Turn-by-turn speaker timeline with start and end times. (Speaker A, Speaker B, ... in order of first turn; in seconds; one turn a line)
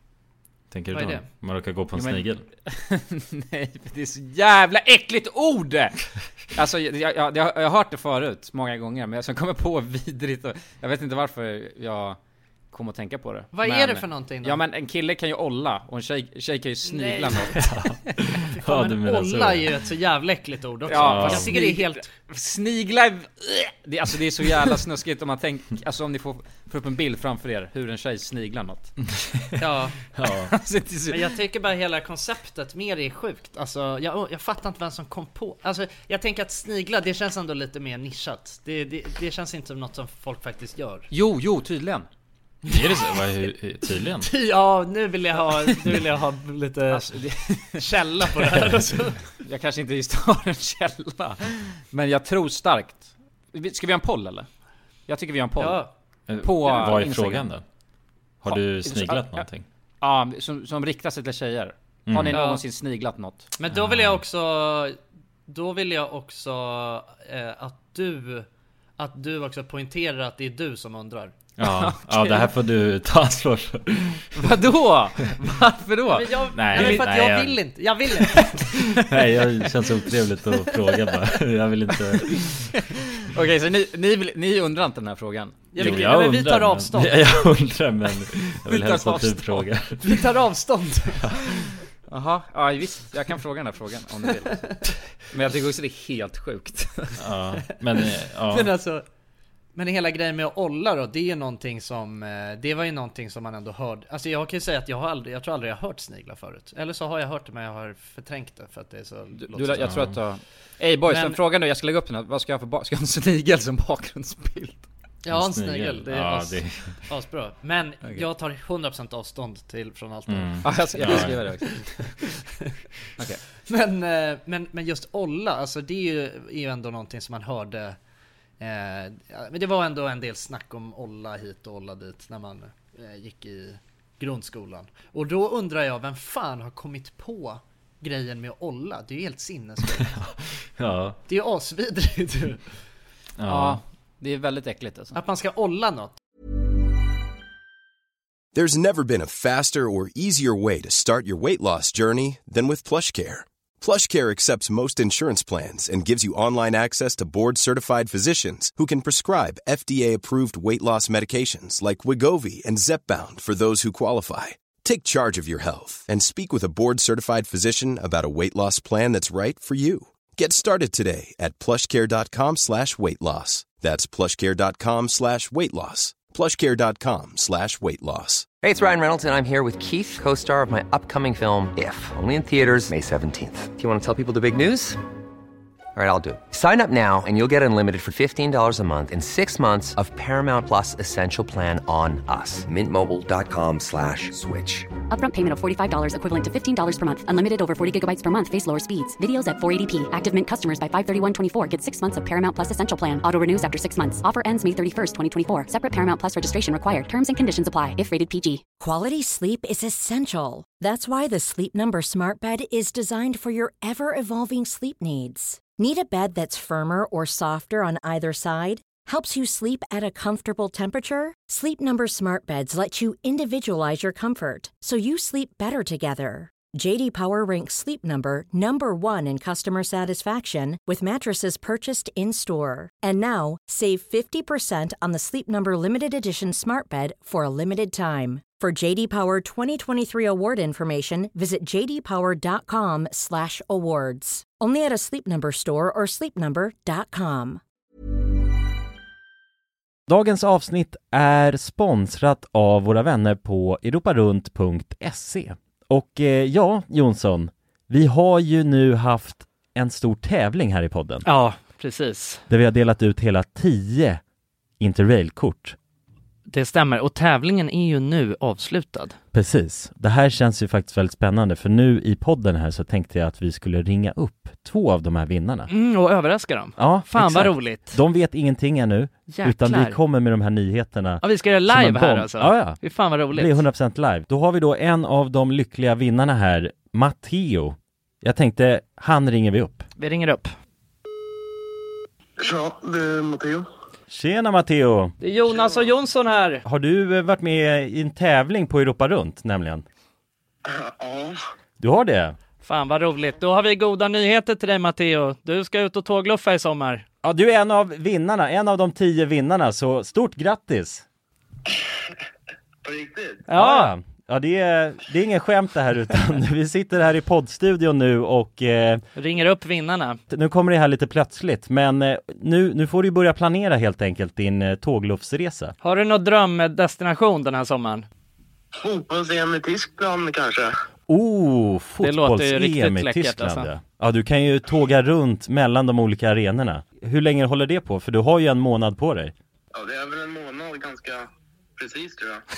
Speaker A: 0.7-2.5
Speaker B: 0.9-1.2
Speaker C: 2.0-12.2
Speaker C: 12.7-17.8
Speaker B: 13.5-14.6
Speaker B: 16.9-22.1
Speaker A: 17.6-19.8
Speaker C: 20.9-29.0
Speaker A: 20.9-21.5
Speaker A: 29.4-29.6
Speaker B: 29.6-30.0
Speaker A: 30.1-30.5
Speaker C: 30.3-31.2
Speaker B: 31.1-41.1
Speaker C: 41.1-42.1
Speaker A: 42.6-44.3
Speaker B: 42.7-43.0
Speaker B: 44.2-47.2
Speaker C: 46.9-48.6
Speaker B: 47.7-49.3
Speaker C: 49.4-54.5
Speaker C: 55.1-55.8
Speaker B: 55.6-55.9
Speaker A: 56.3-57.6
Speaker C: 56.4-57.5
Speaker A: 58.4-59.7
Speaker C: 58.5-59.5
Speaker C: 60.0-63.5
Speaker A: 62.1-62.4
Speaker B: 62.3-62.6
Speaker B: 63.6-65.0
Speaker A: 63.7-64.2
Speaker B: 65.5-68.5
Speaker B: 69.0-71.3
Speaker A: 71.6-74.5
Speaker C: 71.6-72.5
Speaker C: 74.4-77.1
Speaker B: 76.1-79.0
Speaker A: 76.5-77.6
Speaker A: 78.2-82.7
Speaker C: 83.3-86.1
Speaker B: 85.7-87.2
Speaker A: 85.8-90.2
Speaker C: 88.7-89.7
Speaker B: 90.0-91.4
Speaker C: 92.1-94.8
Speaker C: 95.3-97.2
Speaker A: 97.2-98.7
Speaker B: 97.7-99.0
Speaker B: 99.8-110.0
Speaker C: 109.4-114.9
Speaker A: 109.8-110.2
Speaker B: 111.1-111.4
Speaker B: 115.2-122.1
Speaker A: 115.3-117.0
Speaker A: 120.3-121.6
Speaker C: 120.6-122.1
Speaker B: 123.7-128.0
Speaker B: 128.6-140.2
Speaker A: 140.0-141.2
Speaker B: 141.3-142.6
Speaker A: 143.4-143.8
Speaker C: 143.4-145.2
Speaker B: 145.1-146.2
Speaker D: 148.5-178.5
Speaker E: 178.6-185.0
Speaker E: 185.9-194.9
Speaker F: 195.1-208.6
Speaker G: 208.8-247.6
Speaker H: 250.1-261.3
Speaker B: 261.2-262.4
Speaker H: 262.5-264.2
Speaker H: 264.8-265.8
Speaker B: 266.5-269.1
Speaker H: 269.3-275.7
Speaker B: 275.7-278.0
Speaker H: 276.8-289.8
Speaker B: 279.3-280.0
Speaker B: 281.2-283.6
Speaker B: 290.0-290.5
Speaker I: 292.4-293.7
Speaker H: 294.1-295.1
Speaker B: 295.2-296.6
Speaker H: 296.7-299.9
Speaker I: 300.7-301.4
Speaker H: 301.8-302.4
Speaker B: 302.6-307.1
Speaker H: 307.2-311.1
Speaker I: 312.8-313.4
Speaker B: 313.5-313.9
Speaker H: 313.5-319.0
Speaker B: 319.2-320.2
Speaker H: 320.3-325.8
Speaker B: 325.8-328.1
Speaker I: 328.8-330.7
Speaker H: 331.1-339.3
Speaker B: 332.0-333.7
Speaker I: 339.8-342.4